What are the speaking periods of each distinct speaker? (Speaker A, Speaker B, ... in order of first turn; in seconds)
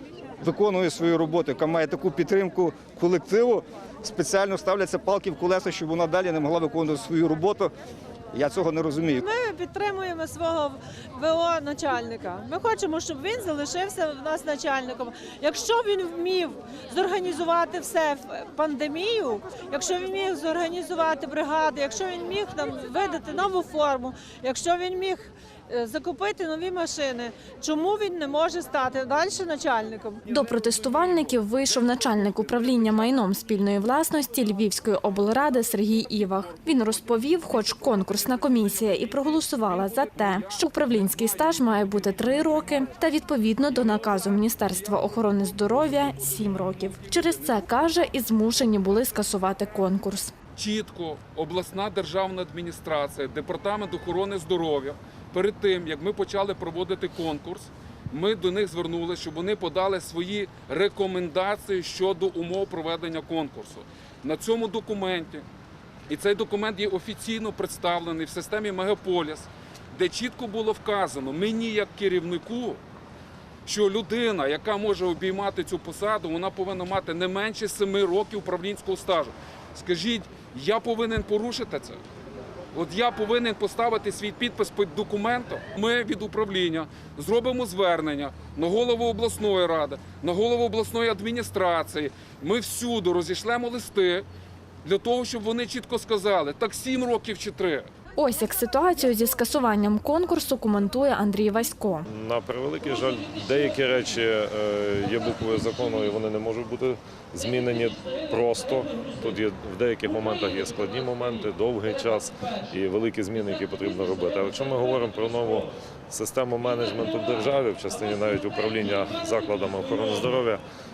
Speaker A: 0.4-7.7, 8.3-9.2
Speaker B: 9.2-30.3
Speaker C: 30.3-50.3, 98.2-102.1
Speaker D: 50.6-65.5, 66.1-72.8, 73.6-82.0, 82.7-94.2, 94.8-97.9
Speaker E: 102.1-120.6